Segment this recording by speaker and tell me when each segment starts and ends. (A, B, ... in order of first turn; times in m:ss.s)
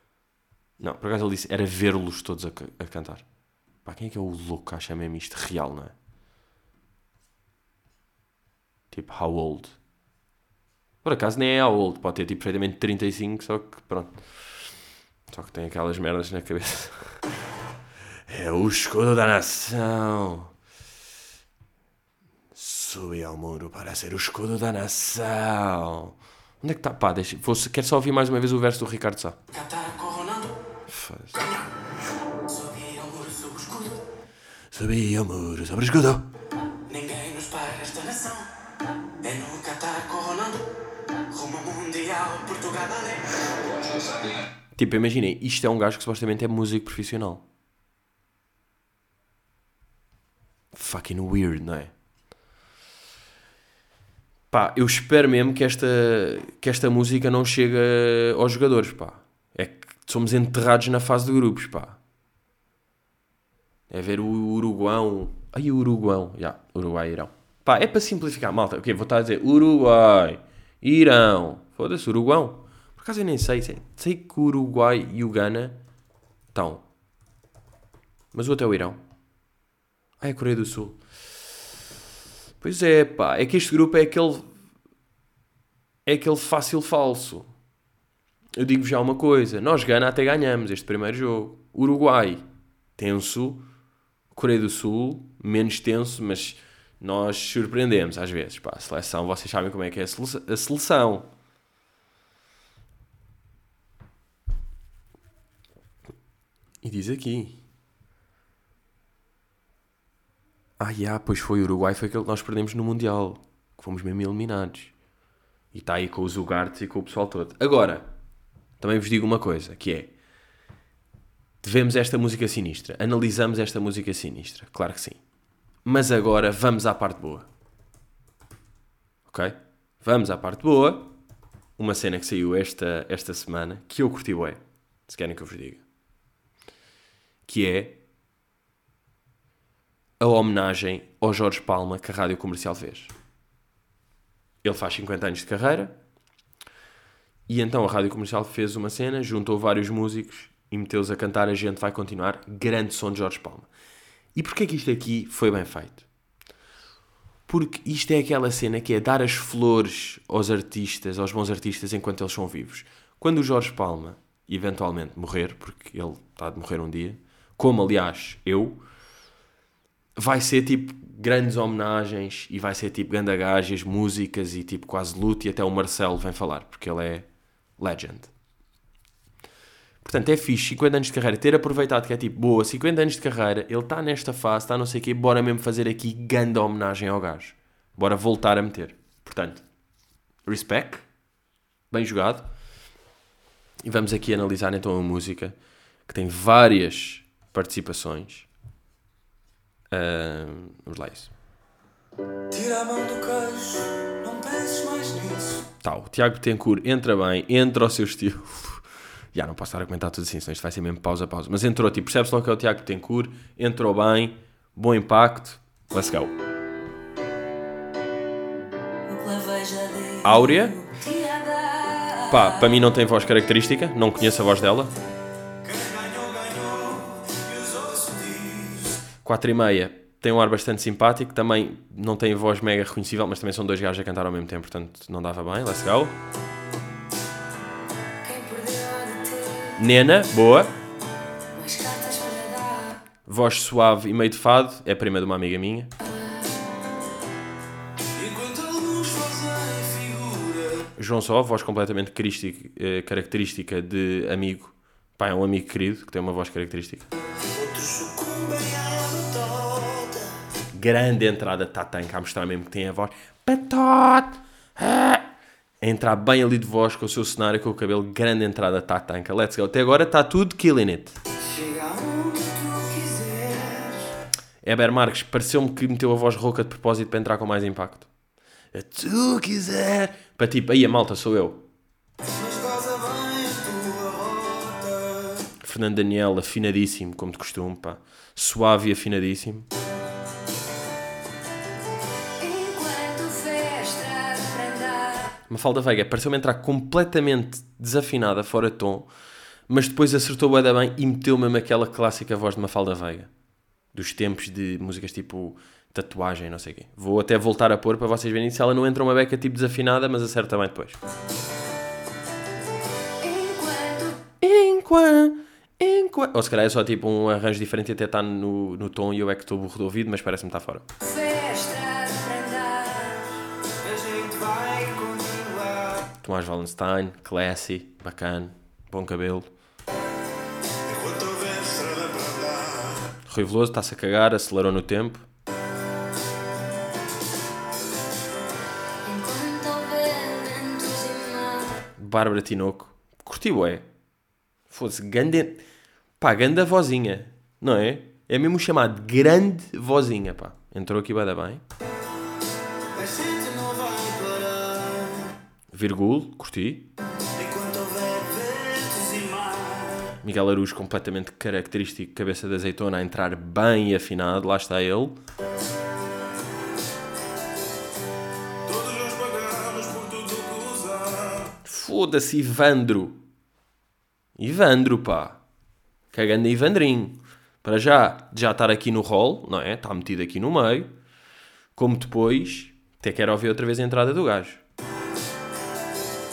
0:00.8-0:03.2 A
0:03.8-0:05.9 A
0:08.9-0:09.8 A
0:11.0-0:14.2 A
0:15.3-0:17.2 A
0:18.3-0:20.5 A
0:22.6-0:29.4 A
0:29.5-0:30.6 B
0:30.9-0:31.4 A
0:31.3-0:31.7 B
0:32.5-0:34.1 B
0:34.7-0:36.3 A
0:36.9-0:38.6 B
0:39.2-0:40.7 B
0:41.3-0:44.1 B
0:44.8-0:47.5 A
0:50.7-0:51.9 A
0:54.5-1:02.0 A
1:03.9-1:15.8 A
1:16.5-1:16.9 A
1:18.3-1:19.0 A
1:20.2-1:21.0 A
1:22.6-1:24.5 A
1:26.1-1:27.5 A
1:28.6-1:32.4 A
1:33.0-1:33.6 A
1:34.3-1:41.3 A
1:46.8-1:47.6 A
1:50.8-1:54.9 A
1:55.7-1:58.1 A
1:58.8-2:00.1 A
2:01.6-2:05.2 A
2:05.8-2:07.5 A
2:09.3-2:11.1 A
2:11.8-2:15.8 A
2:17.5-2:18.0 A
2:20.2-2:23.1 A
2:24.6-2:26.0 A
2:27.5-2:33.7 A
2:34.4-2:36.1 A
2:37.5-2:48.8 A
2:50.2-2:57.3 A
2:57.8-2:58.3 A
3:00.0-3:09.6 A
3:10.5-3:11.1 A
3:11.9-3:12.5 A
3:13.8-3:15.6 A
3:16.1-3:18.5 A
3:19.9-3:21.3 A
3:22.5-3:25.7 B
3:25.8-3:36.3 A
3:39.1-3:42.8 C
3:40.2-3:40.8 A
3:42.3-3:44.9 A
3:45.6-3:49.0 B
3:49.2-3:56.2 A
3:58.2-3:59.8 C
3:59.8-4:00.7 A
4:01.5-4:03.0 C
4:03.3-4:05.9 A
4:06.0-4:06.5 C
4:08.1-4:10.9 B
4:11.0-4:17.1 A
4:17.5-4:20.4 B
4:20.7-4:25.3 A
4:25.8-4:31.2 A
4:31.4-4:34.1 B
4:34.6-4:38.1 A
4:38.7-4:41.6 A
4:42.2-4:45.5 B
4:45.6-4:49.7 A
4:52.4-4:55.4 C
4:55.5-4:59.1 A
4:59.7-5:03.3 A
5:03.9-5:11.0 A
5:13.2-5:14.2 C
5:14.4-5:20.8 A
5:21.0-5:23.2 C
5:23.8-5:26.1 B
5:26.2-5:29.5 A
5:30.8-5:33.1 B
5:33.3-5:35.3 A
5:39.0-5:41.9 C
5:42.0-5:43.9 A
5:44.7-5:45.6 A
5:46.2-5:51.6 A
5:52.9-5:55.3 B
5:55.7-5:56.9 A
5:57.4-6:00.1 B
6:00.2-6:05.2 A
6:08.6-6:11.5 B
6:11.6-6:13.2 A
6:14.4-6:15.4 A
6:16.1-6:20.9 A
6:21.8-6:24.6 A